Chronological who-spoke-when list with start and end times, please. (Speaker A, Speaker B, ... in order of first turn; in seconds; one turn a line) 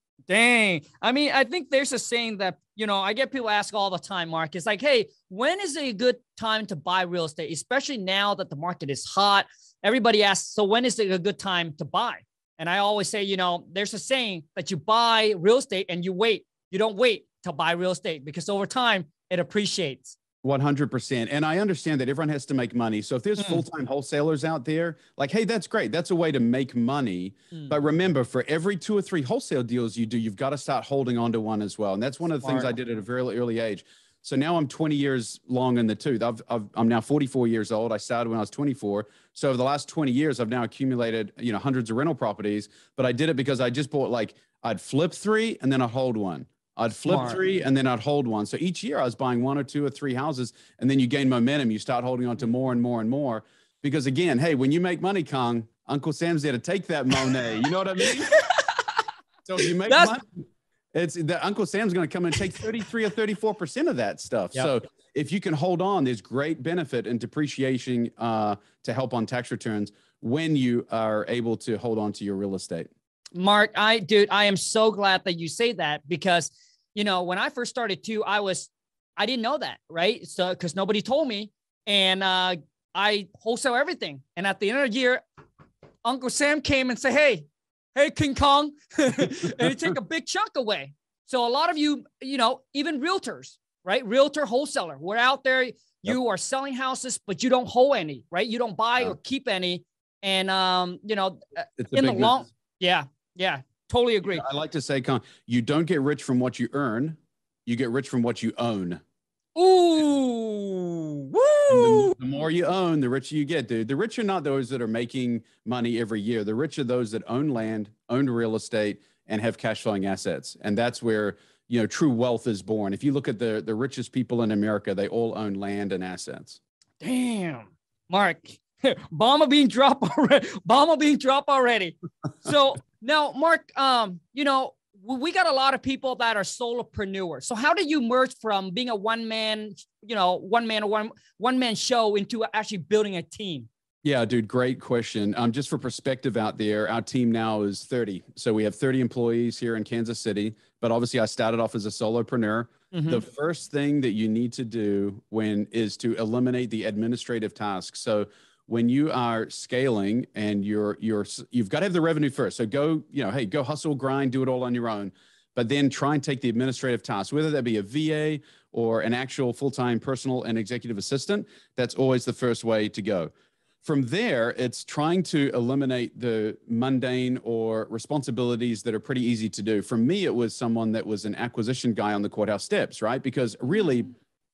Speaker A: 0.3-20.2
Speaker B: 20.4-58.4
Speaker A: 23.4-23.6
Speaker A: 32.4-32.7
Speaker A: 47.1-47.4
Speaker A: 58.0-59.0
Speaker B: 59.5-72.9
Speaker A: 59.6-60.1
Speaker A: 73.3-85.2
Speaker A: 86.0-104.4
Speaker B: 101.8-102.4
Speaker B: 104.3-109.0
Speaker A: 109.5-112.2
Speaker B: 111.7-126.6
Speaker A: 127.0-143.7
Speaker B: 144.0-173.3
Speaker A: 152.9-153.2
Speaker B: 173.8-184.1